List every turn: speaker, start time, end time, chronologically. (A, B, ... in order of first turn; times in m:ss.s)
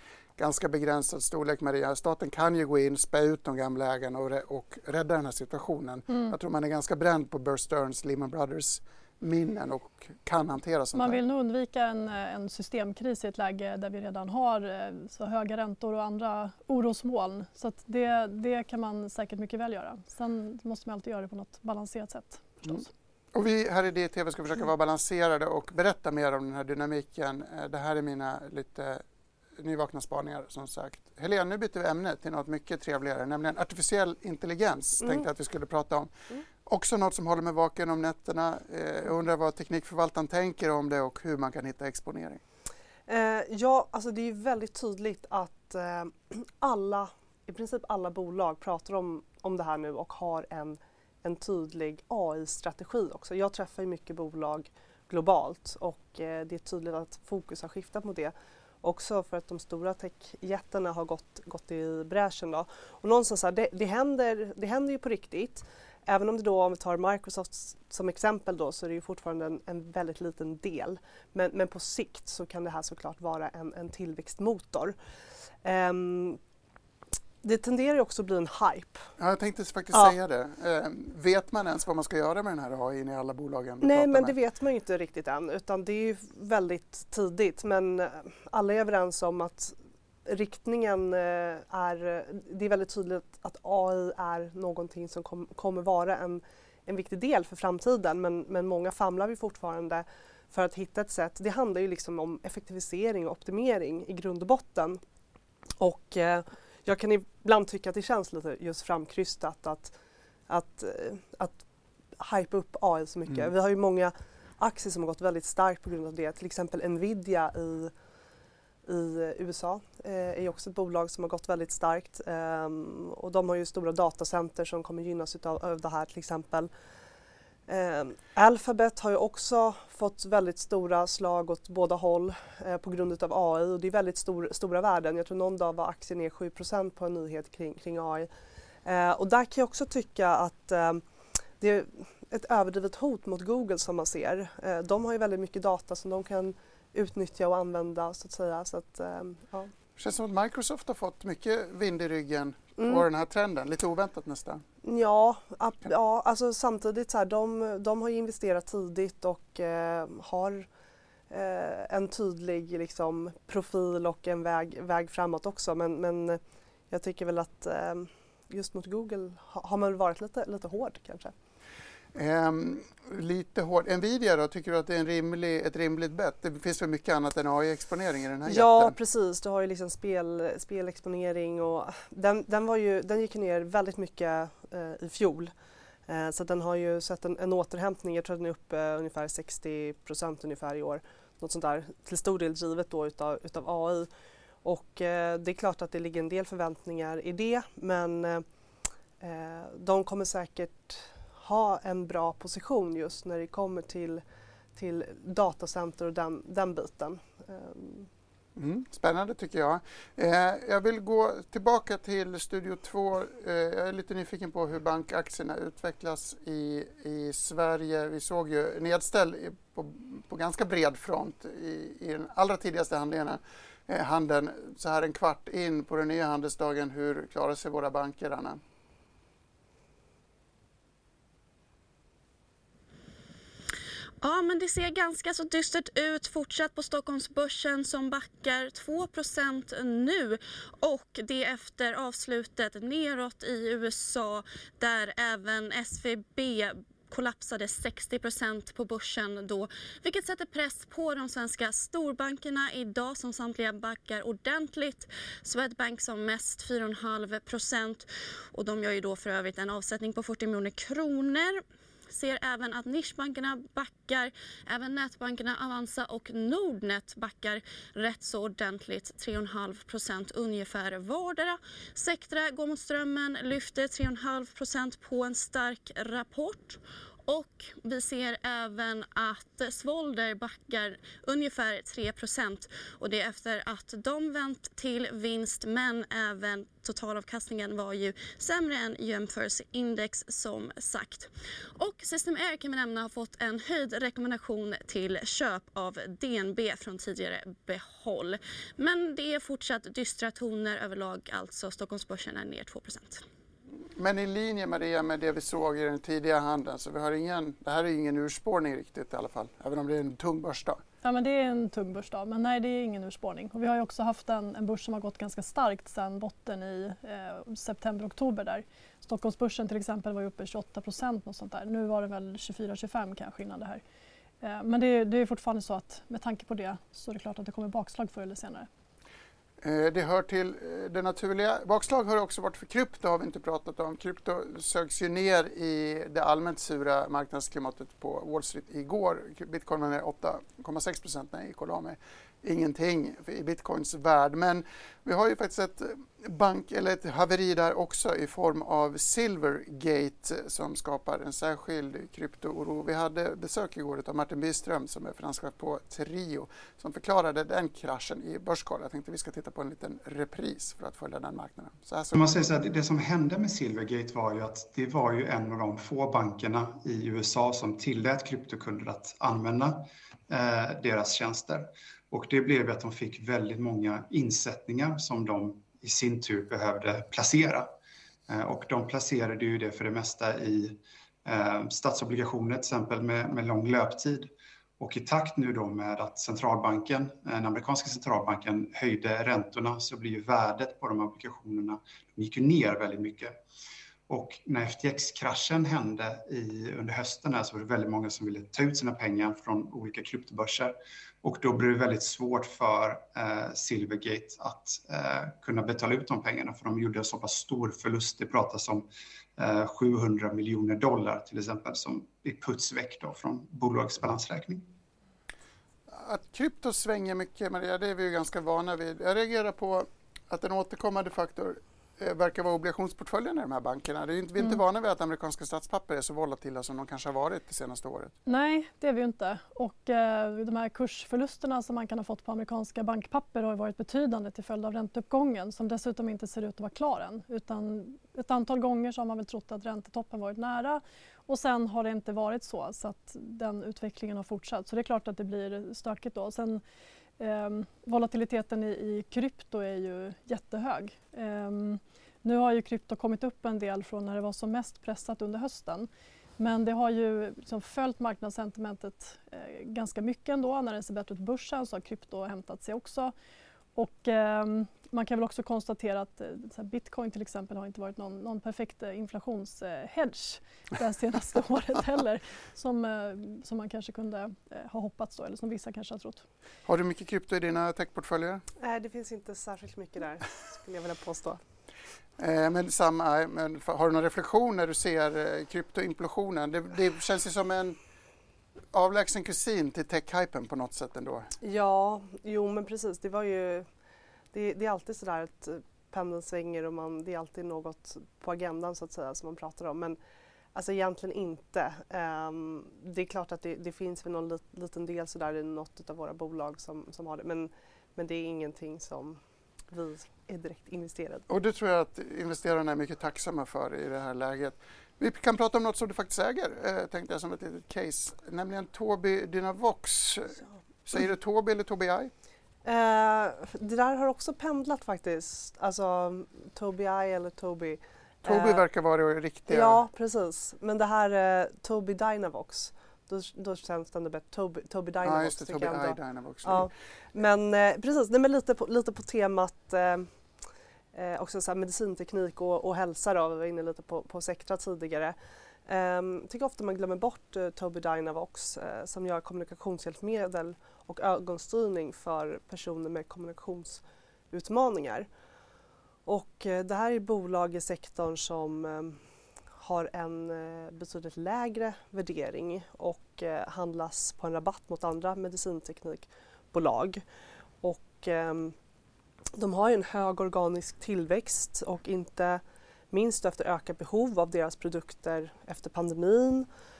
0:00.4-0:11.2 A
0:10.9-0:22.9 B
0:23.3-0:29.0 A
0:29.6-0:36.1 A
0:36.6-0:42.4 A
0:43.1-1:14.9 C
1:15.6-1:16.4 C
1:17.4-1:19.1 C
1:19.2-1:24.3 A
1:23.8-1:45.0 C
1:45.8-1:49.9 C
1:50.5-1:51.6 C
1:52.2-1:57.9 C
1:58.8-2:06.7 C
2:07.7-2:18.3 C
2:18.8-2:21.0 C
2:21.6-2:29.7 C
2:30.0-2:34.6 A
2:32.8-2:33.0 C
2:34.8-2:40.6 C
2:41.3-2:51.3 C
2:52.1-2:58.9 A
2:58.5-3:05.5 C
3:06.1-3:14.1 C
3:14.6-3:18.4 C
3:19.2-3:24.2 C
3:24.8-3:28.1 C
3:28.6-3:48.6 A
3:54.2-5:03.2 D
5:04.0-5:10.8 A
5:11.0-5:23.8 B
5:24.4-5:28.7 B
5:29.6-6:02.3 A
6:02.1-6:17.7 E
6:18.3-6:33.3 E
6:34.1-6:54.7 E
6:55.9-7:08.1 A
7:08.2-7:26.6 B
7:27.2-7:35.9 B
7:36.4-7:43.1 B
7:43.8-7:56.2 B
7:56.6-7:58.4 A
7:58.6-8:01.4 C
8:02.2-8:07.8 A
8:08.7-8:11.3 A
8:11.4-8:13.6 C
8:14.3-8:20.0 C
8:20.5-8:31.2 C
8:31.3-8:42.1 A
8:42.6-8:48.6 C
8:48.2-8:49.8 A
8:49.5-9:00.1 C
8:55.0-8:56.7 A
9:00.9-9:05.1 C
9:05.6-9:15.1 C
9:16.0-9:19.0 C
9:19.6-9:27.0 C
9:27.6-9:28.5 C
9:29.4-9:36.5 C